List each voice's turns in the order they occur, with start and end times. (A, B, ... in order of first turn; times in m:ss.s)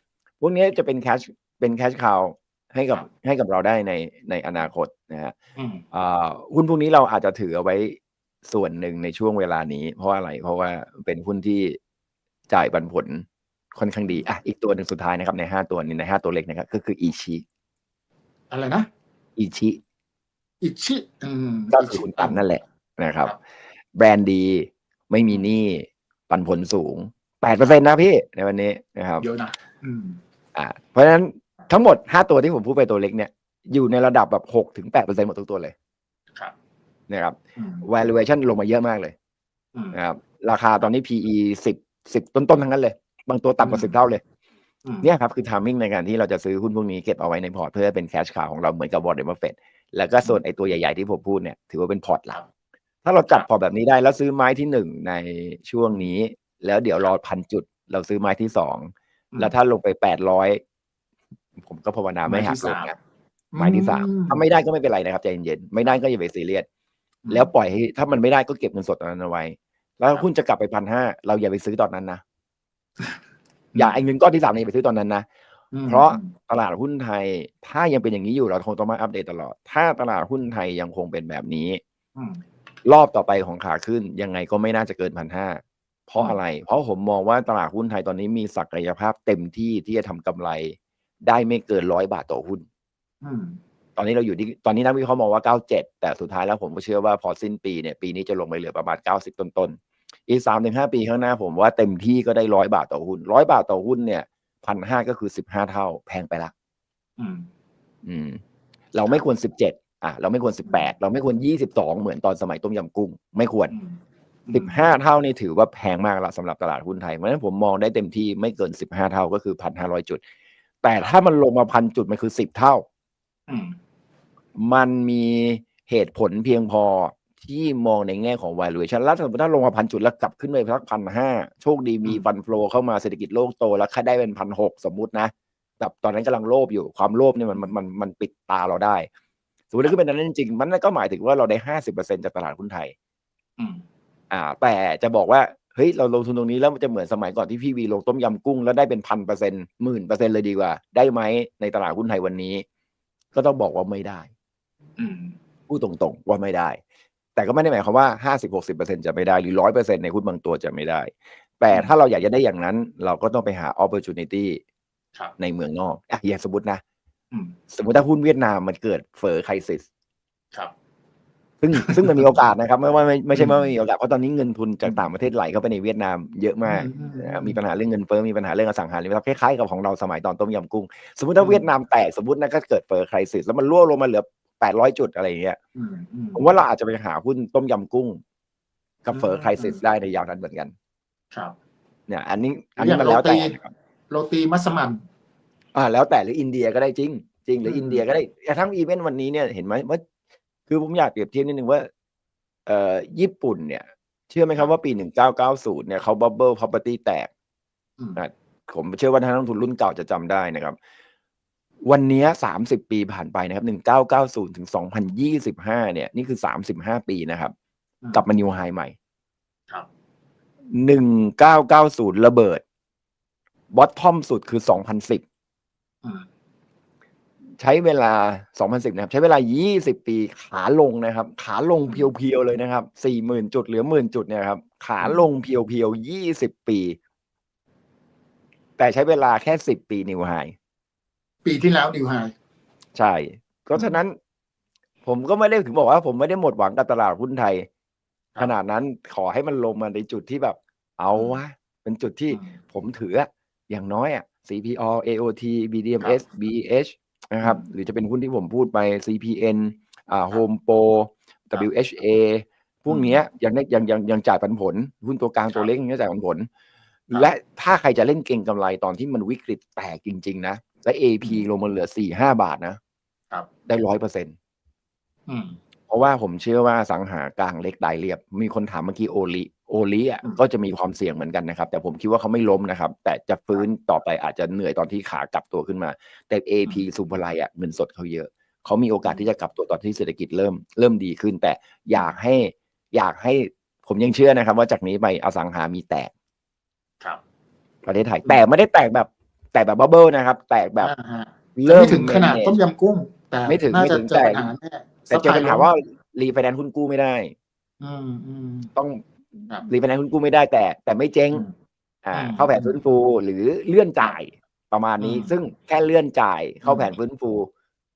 0:00.4-0:05.3 A
0:05.6-0:05.8 B
0:05.9-0:11.8 A
0:12.5-0:17.4 A
0:18.5-0:18.9 B
0:19.4-0:19.8 A
0:20.6-0:22.4 B
0:21.7-0:23.4 A
0:24.0-0:29.2 A
0:29.2-0:30.2 B
0:30.5-0:35.7 A
0:37.1-0:39.1 A
0:37.6-0:37.9 B
0:39.9-0:44.2 A
0:43.6-0:44.0 B
0:44.8-0:45.1 B
0:45.0-0:52.4 A
0:53.0-1:00.6 A
1:01.6-1:03.0 A
1:02.2-1:02.9 B
1:03.5-1:04.4 B
1:03.6-1:06.6 A
1:07.2-1:07.5 B
1:07.3-1:12.2 A
1:13.8-1:15.2 A
1:15.7-1:16.3 B
1:15.8-1:21.8 A
1:22.2-1:22.4 B
1:22.8-1:32.6 A
1:33.2-1:33.6 B
1:34.0-1:46.5 A
1:47.2-1:47.5 B
1:48.0-1:48.4 A
1:48.9-1:53.7 A
1:50.7-1:50.9 B
1:53.7-1:54.9 B
1:54.5-2:00.2 A
2:00.8-2:02.8 A
2:03.5-2:03.8 B
2:04.6-2:19.1 A
2:19.7-2:22.9 A
2:23.6-2:23.8 B
2:24.3-2:32.6 A
2:33.3-2:34.3 A
2:35.0-2:35.4 B
2:35.7-2:36.8 A
2:37.3-2:44.6 A
2:45.4-2:46.8 A
2:47.7-2:49.8 A
2:51.6-3:05.6 A
2:51.7-2:52.2 B
2:53.3-2:53.6 B
2:56.7-2:57.6 B
3:01.4-3:01.7 B
3:05.8-3:06.5 B
3:06.3-3:08.2 A
3:09.0-3:10.7 A
3:09.1-3:09.8 B
3:12.1-3:13.7 A
3:12.8-3:13.6 B
3:14.1-3:15.0 B
3:15.8-3:20.0 A
3:17.7-3:18.0 B
3:20.7-3:21.9 A
3:22.7-3:27.3 A
3:28.2-3:30.8 A
3:31.8-3:37.5 A
3:38.1-3:38.9 A
3:40.8-3:42.6 A
3:43.7-3:45.2 A
3:47.6-3:57.0 A
3:55.0-3:55.2 B
3:58.8-4:00.5 A
4:01.4-4:02.3 B
4:03.0-4:04.2 A
4:05.0-4:07.7 A
4:08.4-4:26.5 A
4:11.1-4:11.4 B
4:22.9-4:23.2 B
4:27.1-4:32.8 A
4:33.7-4:34.3 A
4:35.3-4:35.6 B
4:35.9-4:56.1 A
4:57.8-5:00.9 A
5:00.8-5:05.7 B
5:01.6-5:02.6 A
5:03.5-5:04.5 A
5:05.1-5:07.3 A
5:07.8-5:08.7 B
5:08.8-5:11.5 A
5:12.0-5:17.5 A
5:12.1-5:12.8 B
5:15.0-5:15.3 B
5:16.6-5:17.0 B